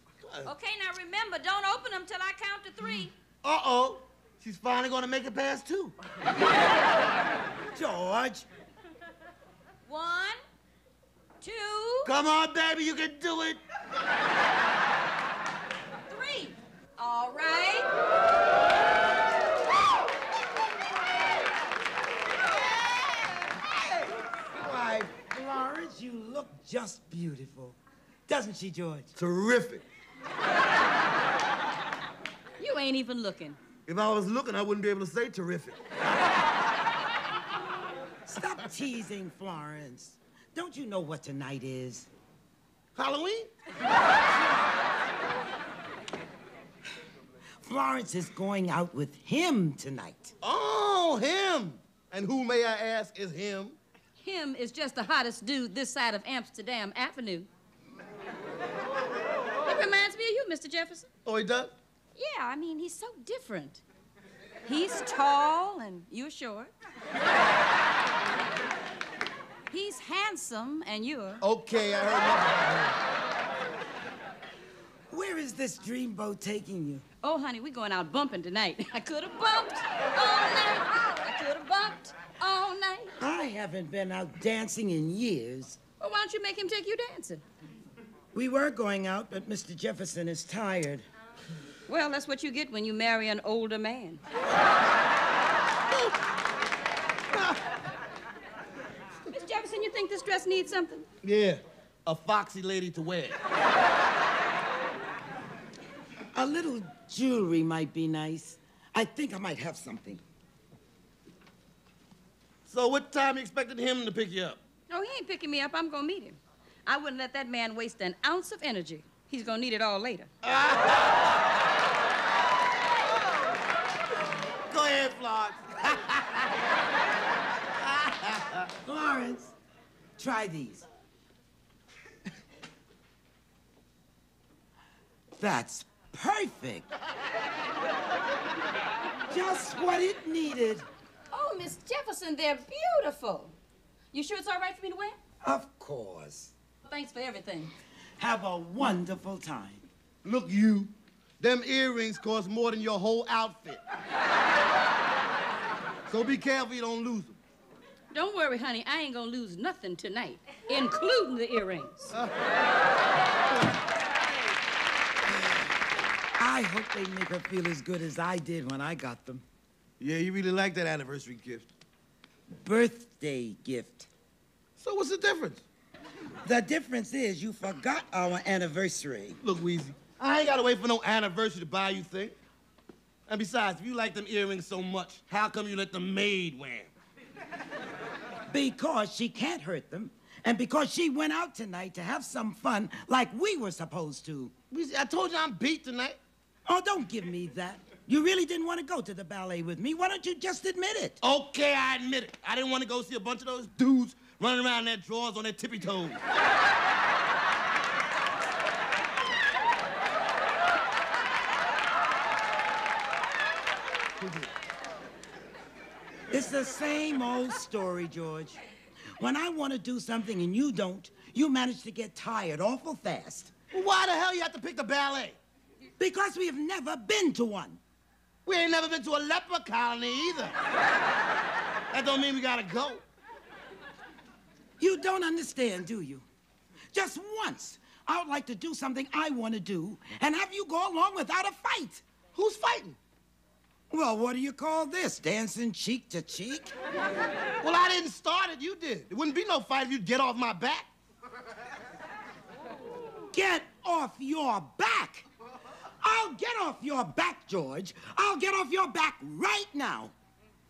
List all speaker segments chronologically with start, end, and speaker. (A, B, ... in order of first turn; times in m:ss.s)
0:00.2-0:00.5 A
0:00.4-0:03.1 B
0:03.4-0:06.0 A
0:07.7-0:08.5 C
0:09.9-0:10.4 B
0:11.4-0:12.1 B
0:12.0-0:13.6 A
0:16.1-0:17.9 B
0:24.6-0:29.1 C
0:29.2-0:29.8 A
0:32.6-0:33.6 B
0:33.9-0:35.8 A
0:38.2-0:42.1 C
0:43.0-0:43.5 A
0:47.6-0:50.3 C
0:50.4-0:53.8 A
0:54.2-0:57.5 B
0:59.6-1:01.1 B
1:01.2-1:01.7 A
1:02.1-1:03.8 B
1:04.7-1:06.7 B
1:09.7-1:11.4 B
1:11.4-1:13.0 A
1:15.1-1:17.0 C
1:17.2-1:23.1 B
1:23.2-1:25.8 C
1:26.0-1:27.4 B
1:28.3-1:31.0 C
1:31.9-1:34.2 B
1:39.3-1:41.1 B
1:41.2-1:43.4 A
1:46.3-1:50.2 C
1:52.7-1:54.6 A
1:54.9-2:00.3 B
2:00.4-2:01.0 A
2:04.7-2:06.5 A
2:07.8-2:08.6 A
2:08.8-2:09.5 C
2:10.2-2:10.9 C
2:15.3-2:16.9 C
2:19.3-2:20.9 C
2:21.3-2:23.5 B
2:24.1-2:25.2 B
2:25.4-2:26.5 C
2:26.8-2:27.7 B
2:28.2-2:29.8 C
2:30.2-2:33.8 A
2:36.1-2:37.4 A
2:38.1-2:42.2 B
2:42.1-2:42.5 A
2:46.4-2:49.4 C
2:50.0-2:51.7 A
2:52.6-2:54.1 C
2:54.8-2:55.6 A
2:56.4-2:59.4 C
2:59.4-3:02.3 A
3:03.3-3:06.9 A
3:08.5-3:14.5 C
3:14.7-3:16.2 A
3:16.7-3:21.2 C
3:21.2-3:26.2 A
3:34.2-3:34.5 A
3:36.3-3:38.6 C
3:39.2-3:43.5 C
3:43.7-3:45.4 A
3:46.0-3:47.8 C
3:48.5-3:50.6 A
3:51.9-3:53.0 A
3:54.8-3:56.2 C
3:56.9-4:02.0 C
4:02.3-4:03.0 A
4:03.9-4:06.7 C
4:07.6-4:10.9 A
4:13.3-4:15.3 C
4:16.0-4:20.1 C